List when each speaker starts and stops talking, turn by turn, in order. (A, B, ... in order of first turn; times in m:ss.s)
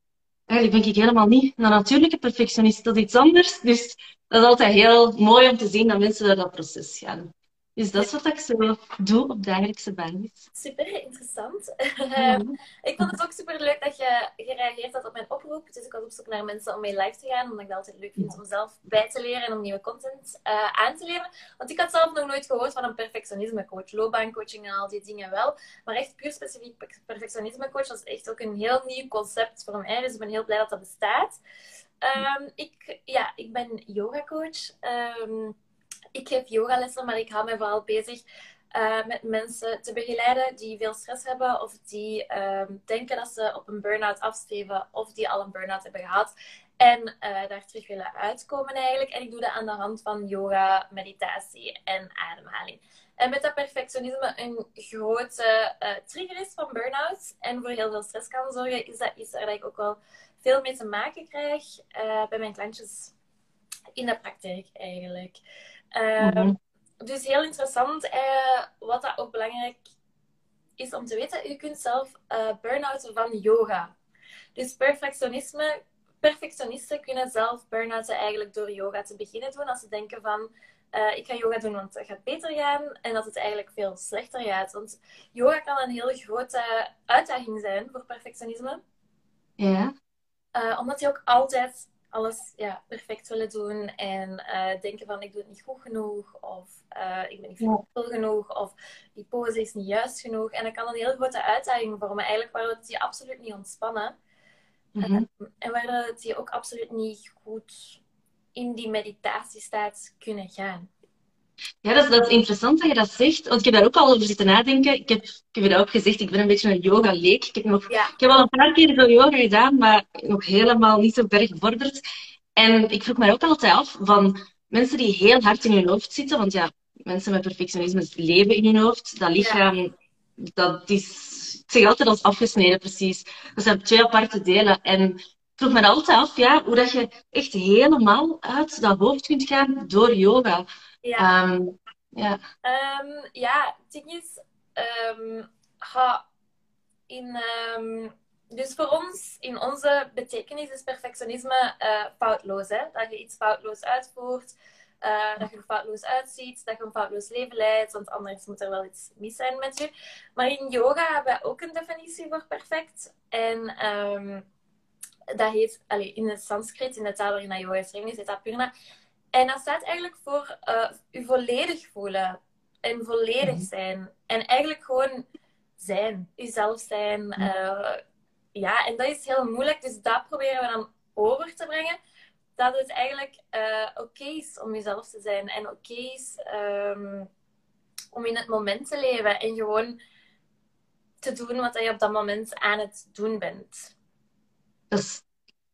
0:00.5-0:10.4 A
0:10.5-0:31.4 B
0:12.2-0:13.0 A
0:32.0-0:35.5 B
0:36.1-1:03.1 B
1:04.0-1:05.4 B
1:05.9-1:09.8 B
1:06.2-1:06.6 A
1:10.8-1:13.9 B
1:14.6-1:28.8 B
1:29.6-1:29.9 A
1:30.5-1:44.1 B
1:45.0-1:45.2 A
1:45.0-1:48.0 B
1:48.6-1:50.9 B
1:51.8-2:02.0 A
1:57.9-1:58.1 B
2:02.6-2:20.6 A
2:21.0-2:21.3 B
2:21.2-2:22.4 A
2:22.6-2:26.2 B
2:27.1-2:44.4 B
2:45.4-2:48.7 B
2:49.3-2:55.2 B
2:53.4-2:53.7 A
2:55.8-2:58.0 B
2:58.5-3:02.0 B
3:02.6-3:07.3 B
3:08.1-3:10.0 B
3:11.2-3:13.9 B
3:14.9-3:15.2 A